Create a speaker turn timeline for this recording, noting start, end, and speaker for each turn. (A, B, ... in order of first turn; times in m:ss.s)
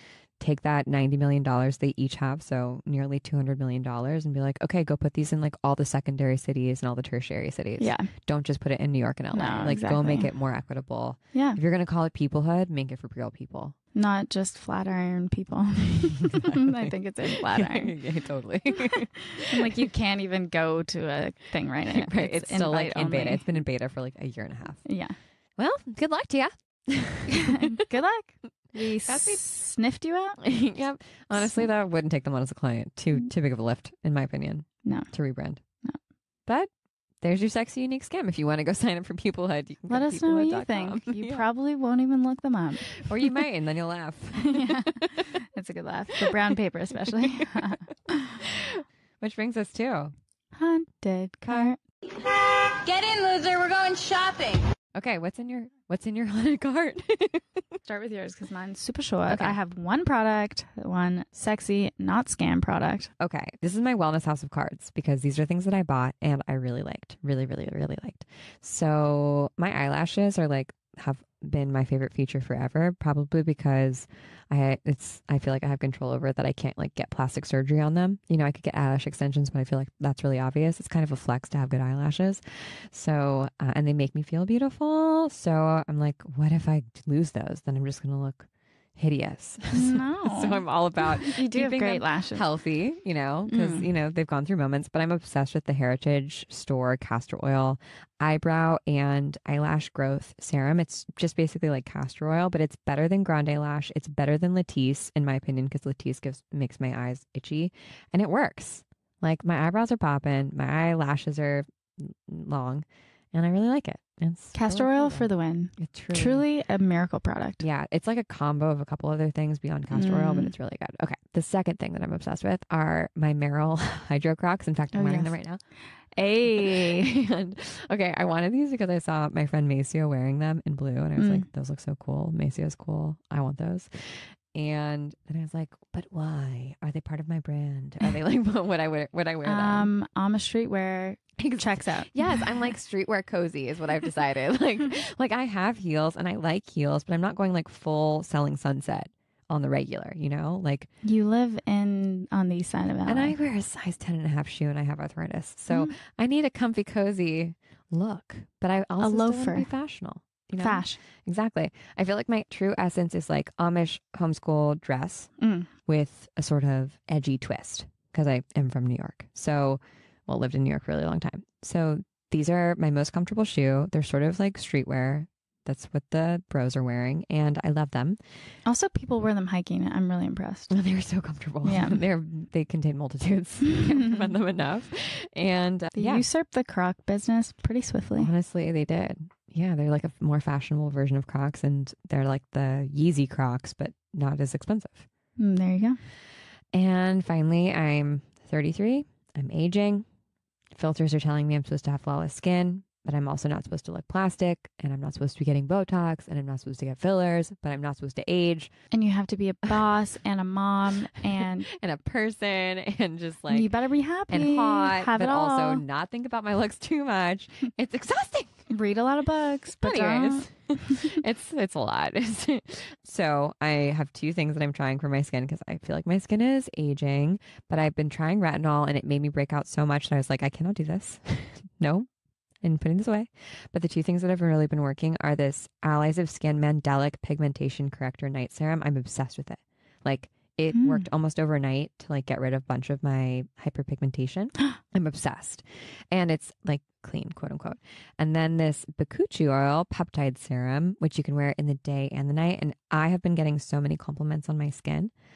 0:00.4-0:13.8 A
0:07.8-0:08.1 B
0:09.3-0:10.3 B
0:11.3-0:11.6 B
0:13.9-0:18.0 B
0:17.3-0:19.6 A
0:19.4-0:23.4 B
0:21.9-0:24.9 A
0:24.8-0:25.2 B
0:25.6-0:27.6 A
0:27.4-0:30.4 B
0:29.0-0:29.4 A
0:30.4-0:35.6 A
0:31.3-0:31.7 B
0:34.8-0:35.1 B
0:37.2-0:41.4 A
0:39.9-0:43.1 B
0:42.9-0:45.0 A
0:44.4-0:48.4 B
0:48.4-0:50.1 A
0:50.6-0:51.8 B
0:51.5-0:51.7 A
0:52.1-0:54.6 C
0:54.9-0:57.6 A
0:57.9-1:03.1 B
0:59.3-0:59.6 A
1:03.2-1:56.4 A
1:29.7-1:32.5 B
1:33.5-1:33.9 B
1:54.5-1:57.6 B
1:57.6-2:05.6 A
1:59.9-2:00.5 B
2:04.9-2:07.1 B
2:06.5-2:19.9 A
2:11.2-2:11.4 B
2:19.4-2:22.4 B
2:21.4-2:30.9 A
2:31.0-2:33.4 B
2:33.1-2:45.3 A
2:39.0-2:39.7 B
2:40.6-2:41.0 B
2:45.4-2:45.7 B
2:45.9-2:58.2 A
2:58.6-3:00.7 B
3:00.7-3:06.3 A
3:01.6-3:02.0 B
3:03.7-3:04.3 B
3:06.0-3:08.3 B
3:08.2-3:15.1 A
3:15.4-3:16.0 B
3:16.7-3:20.0 A
3:20.7-3:28.7 A
3:28.9-3:31.7 B
3:31.7-3:33.7 A
3:33.5-3:35.8 B
3:34.3-3:38.6 A
3:38.7-3:40.9 B
3:39.8-3:52.1 A
3:52.6-4:15.1 A
4:00.7-4:01.1 B